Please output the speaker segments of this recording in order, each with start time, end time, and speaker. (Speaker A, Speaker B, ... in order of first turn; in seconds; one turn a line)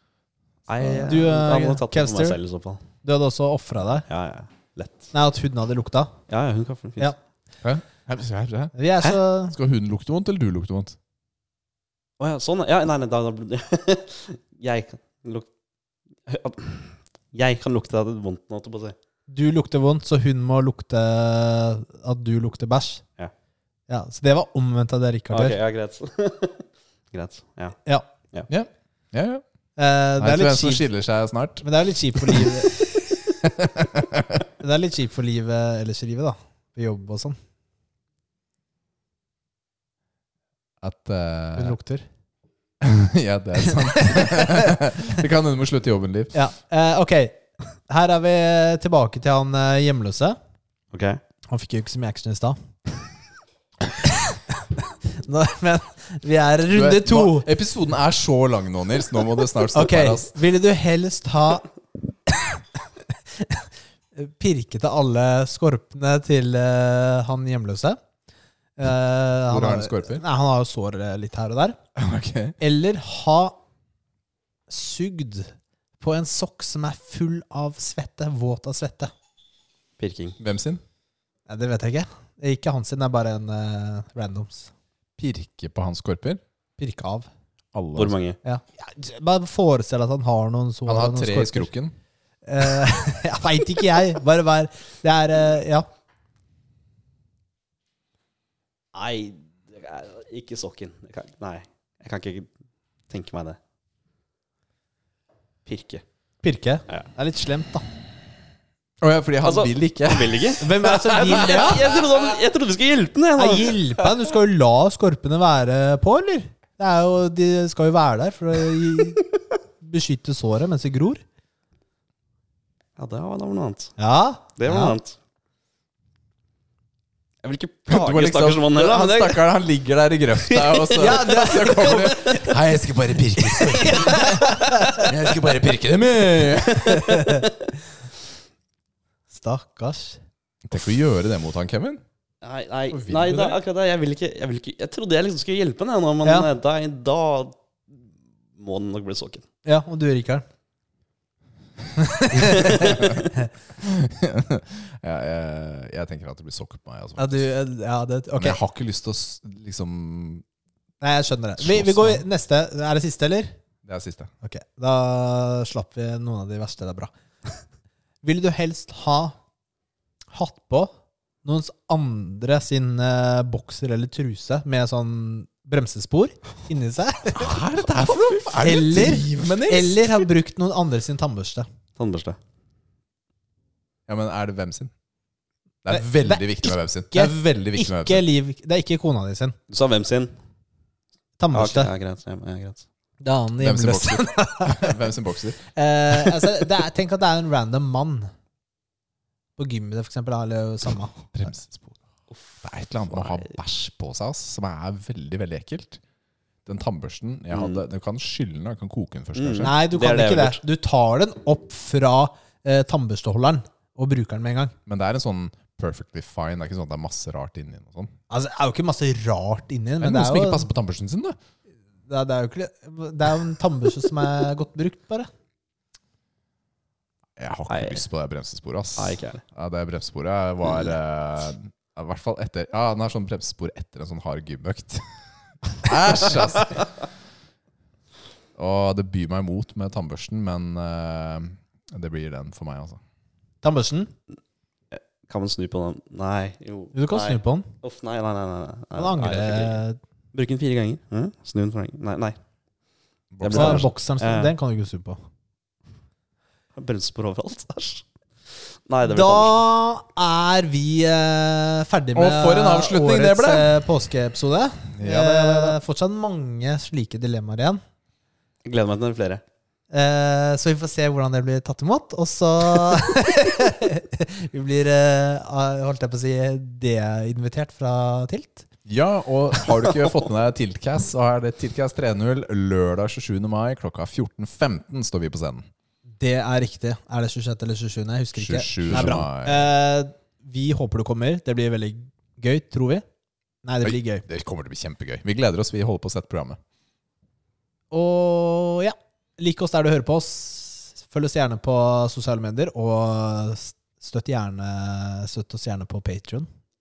Speaker A: 0.7-2.8
Speaker B: 0.8-1.1
Speaker C: 1.1-2.4
Speaker C: 3.0-4.0
Speaker A: 4.1-5.1
Speaker C: 5.1-6.1
Speaker A: 6.3-7.1
Speaker B: 7.6-8.7
Speaker C: 8.7-9.6
Speaker B: 9.5-11.0
Speaker A: 12.2-15.5
Speaker A: 16.3-19.0
Speaker C: 19.3-23.0
Speaker C: 23.9-25.6
Speaker A: 25.3-27.8
Speaker B: 28.5-29.4
Speaker C: 29.8-30.9
Speaker B: 30.2-31.6
Speaker C: 31.6-32.8
Speaker B: 32.2-32.5
Speaker B: 33.4-34.5
Speaker C: 34.6-37.4
Speaker B: 40.8-41.8
Speaker C: 41.6-42.1
Speaker B: 42.8-46.4
Speaker C: 43.7-44.6
Speaker C: 46.3-50.4
Speaker A: 50.9-51.2
Speaker C: 51.5-52.6
Speaker C: 54.0-57.5
Speaker B: 56.7-60.4
Speaker C: 59.7-61.7
Speaker C: 62.3-68.0
Speaker C: 68.8-71.8
Speaker B: 69.5-70.2
Speaker B: 72.0-72.6
Speaker C: 72.6-73.6
Speaker C: 74.7-79.1
Speaker A: 80.0-80.4
Speaker B: 80.4-80.8
Speaker C: 81.5-84.7
Speaker B: 85.2-86.4
Speaker C: 86.8-87.3
Speaker B: 87.7-88.2
Speaker A: 88.0-88.4
Speaker C: 88.4-91.7
Speaker B: 90.9-92.0
Speaker C: 92.5-95.9
Speaker A: 98.9-102.5
Speaker A: 103.1-103.6
Speaker A: 105.7-106.0
Speaker C: 106.4-107.8
Speaker B: 109.0-110.6
Speaker A: 109.4-113.9
Speaker C: 110.6-111.9
Speaker C: 113.4-119.2
Speaker C: 119.8-121.2
Speaker A: 123.0-123.9
Speaker C: 124.0-125.0
Speaker A: 124.6-125.2
Speaker A: 127.4-129.5
Speaker B: 127.9-137.3
Speaker A: 130.5-132.5
Speaker C: 131.0-132.2
Speaker A: 133.4-135.0
Speaker C: 133.8-135.0
Speaker C: 136.8-137.5
Speaker C: 139.3-140.2
Speaker B: 140.6-142.0
Speaker A: 142.4-148.0
Speaker B: 142.9-143.6
Speaker A: 148.6-149.4
Speaker C: 149.7-150.4
Speaker C: 152.0-153.2
Speaker A: 152.5-153.3
Speaker B: 152.8-153.1
Speaker B: 153.8-157.5
Speaker C: 157.2-158.6
Speaker B: 158.4-160.4
Speaker C: 161.0-163.5
Speaker B: 161.6-162.2
Speaker B: 163.8-164.3
Speaker C: 164.4-167.1
Speaker C: 168.2-169.4
Speaker C: 170.3-170.9
Speaker C: 171.4-177.6
Speaker B: 177.3-180.2
Speaker C: 178.5-181.7
Speaker A: 182.0-182.4
Speaker B: 184.1-184.9
Speaker B: 185.8-188.2
Speaker C: 185.9-189.6
Speaker A: 189.7-190.3
Speaker C: 191.4-191.9
Speaker A: 191.5-192.8
Speaker C: 193.2-195.0
Speaker B: 193.6-195.6
Speaker C: 195.7-198.3
Speaker C: 199.6-201.3
Speaker B: 201.3-202.0
Speaker B: 202.6-206.0
Speaker A: 203.1-203.5
Speaker B: 206.7-209.7
Speaker A: 207.5-207.8
Speaker A: 209.3-210.6
Speaker C: 209.6-214.8
Speaker B: 214.9-218.1
Speaker C: 218.3-220.7
Speaker B: 220.0-221.4
Speaker C: 222.1-225.3
Speaker B: 227.4-235.1
Speaker A: 227.7-228.0
Speaker A: 229.0-229.4
Speaker B: 235.7-236.8
Speaker B: 238.6-243.0
Speaker C: 243.6-244.1
Speaker A: 244.9-249.8
Speaker C: 246.9-247.7
Speaker C: 249.0-250.0
Speaker A: 250.3-252.4
Speaker B: 253.3-253.9
Speaker A: 253.4-254.5
Speaker C: 253.5-255.2
Speaker A: 256.8-258.1
Speaker A: 258.9-259.6
Speaker C: 259.1-267.8
Speaker B: 262.1-263.8
Speaker B: 264.9-265.8
Speaker A: 268.6-269.4
Speaker C: 269.9-278.7
Speaker B: 278.9-285.7
Speaker C: 286.2-293.0
Speaker B: 288.4-289.7
Speaker C: 293.6-294.2
Speaker B: 293.8-296.6
Speaker C: 297.9-306.5